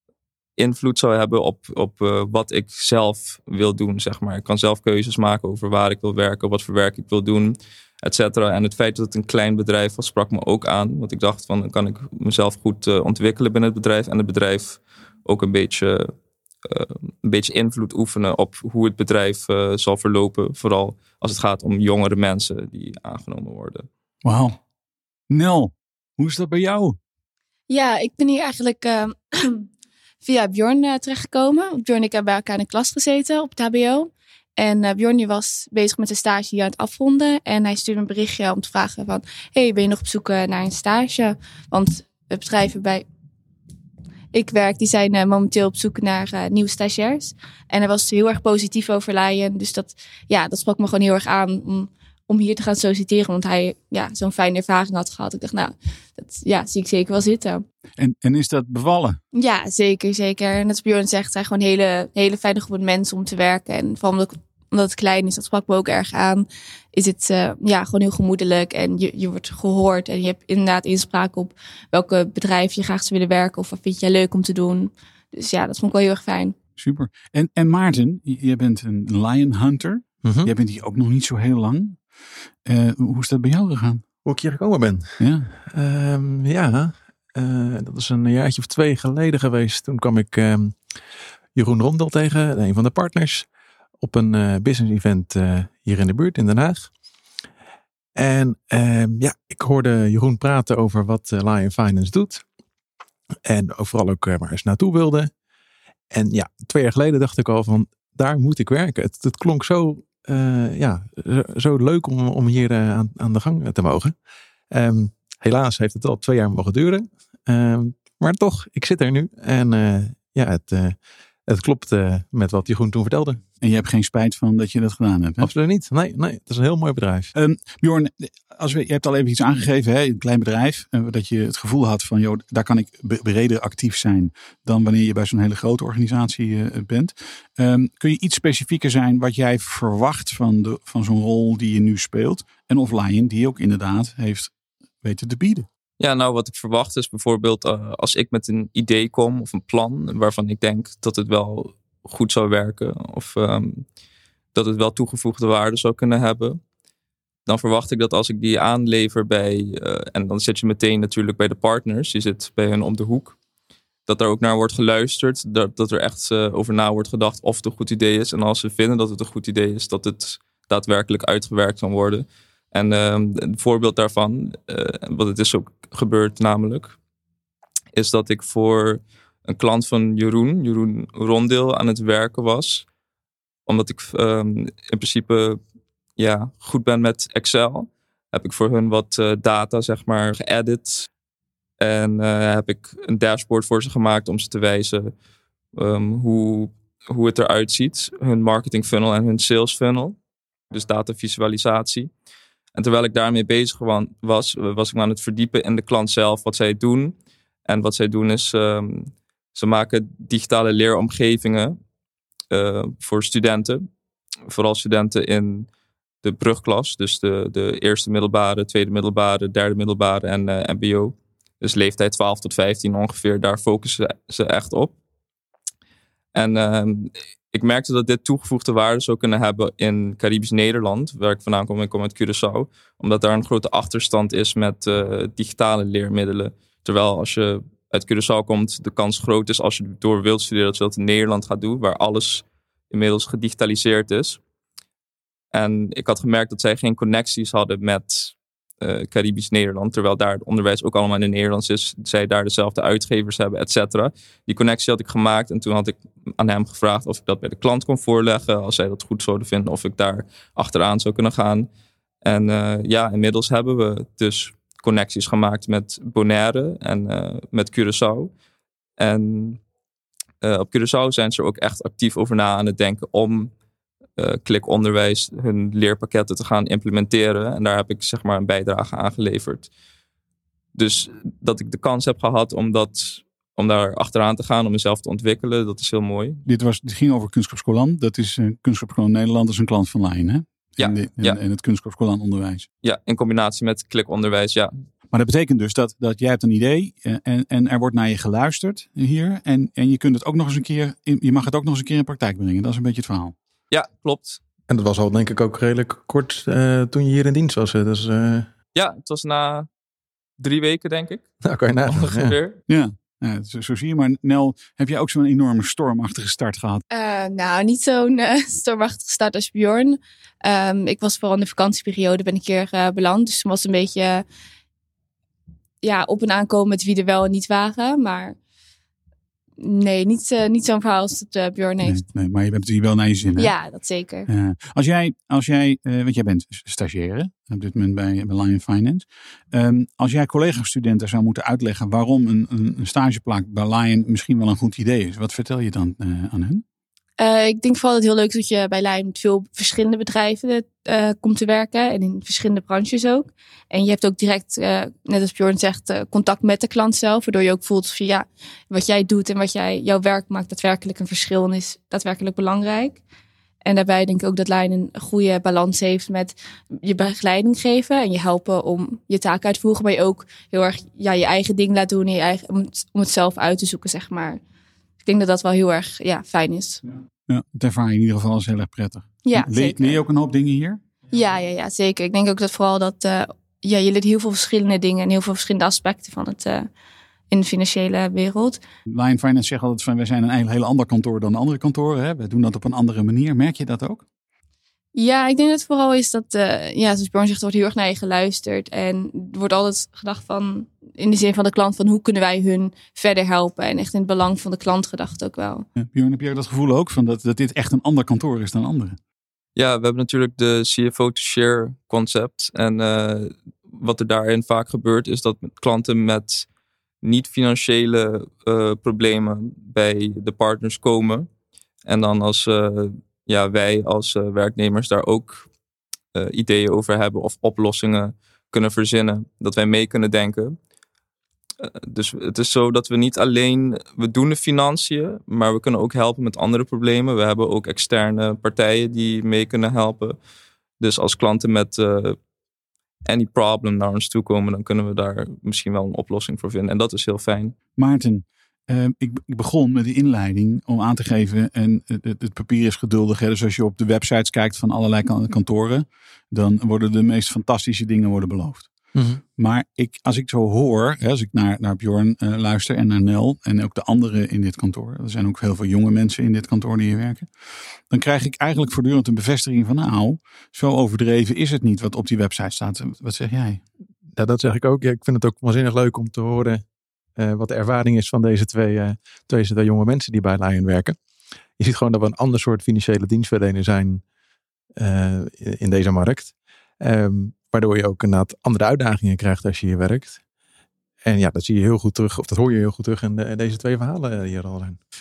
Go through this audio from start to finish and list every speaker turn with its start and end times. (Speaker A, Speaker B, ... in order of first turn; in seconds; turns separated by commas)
Speaker A: 0.6-16.1, Speaker A: 16.6-23.9, Speaker B: 24.2-24.6, Speaker B: 25.3-26.9, Speaker C: 27.7-29.7, Speaker C: 30.2-43.0, Speaker C: 44.3-57.6, Speaker B: 58.0-59.2, Speaker C: 59.3-76.5, Speaker B: 76.8-82.0, Speaker D: 80.2-80.5, Speaker B: 82.7-84.0, Speaker D: 84.2-85.2, Speaker B: 85.2-85.5, Speaker D: 85.7-90.8, Speaker D: 91.5-93.5, Speaker D: 94.0-96.9, Speaker D: 98.2-102.4, Speaker D: 103.5-105.3, Speaker D: 106.1-114.1, Speaker D: 114.7-123.4, Speaker B: 123.6-125.5, Speaker D: 125.4-127.3, Speaker B: 127.3-145.7, Speaker A: 146.0-153.8, Speaker A: 154.5-156.6, Speaker A: 157.4-163.4, Speaker A: 164.1-177.0, Speaker A: 177.9-182.9, Speaker A: 183.7-185.6, Speaker A: 186.2-191.1, Speaker A: 191.8-195.1, Speaker A: 195.7-200.2, Speaker A: 200.7-202.1, Speaker A: 202.7-207.1, Speaker A: 207.7-211.7, Speaker A: 212.5-213.9, Speaker A: 214.5-215.7, Speaker A: 216.2-224.9, Speaker A: 226.3-244.4, Speaker A: 245.5-261.7, Speaker A: 262.2-268.3, Speaker A: 269.0-269.6, Speaker A: 270.4-273.5, Speaker A: 274.2-279.7, Speaker A: 280.7-286.4, Speaker B: 286.4-292.7, Speaker A: 290.8-291.4, Speaker A: 292.8-294.7, Speaker B: 295.1-303.3, Speaker A: 303.7-304.4, Speaker D: 304.7-308.5, Speaker A: 308.7-309.7, Speaker A: 310.4-311.2, Speaker D: 311.4-312.3, Speaker A: 311.8-312.6, Speaker B: 312.7-316.8, Speaker C: 316.9-324.2, Speaker C: 325.8-328.3, Speaker C: 329.6-332.0, Speaker B: 331.8-333.5, Speaker C: 333.4-334.3, Speaker B: 334.3-346.6, Speaker C: 347.2-363.0, Speaker C: 363.6-374.4, Speaker C: 375.0-376.8, Speaker B: 377.3-380.8, Speaker C: 379.2-380.0, Speaker C: 381.1-386.7, Speaker C: 387.3-388.6, Speaker B: 388.9-394.0, Speaker C: 394.9-405.6, Speaker B: 405.8-408.9, Speaker A: 409.6-416.5, Speaker A: 417.0-421.3, Speaker A: 421.8-425.5, Speaker A: 426.1-430.5, Speaker A: 431.6-440.2, Speaker A: 440.8-442.1, Speaker A: 443.1-447.5, Speaker B: 447.8-458.7, Speaker D: 458.9-459.2, Speaker B: 459.4-467.3, Speaker B: 467.9-473.6, Speaker D: 474.1-476.6, Speaker D: 477.2-481.0, Speaker D: 481.6-484.0, Speaker D: 484.8-490.2, Speaker D: 491.0-494.8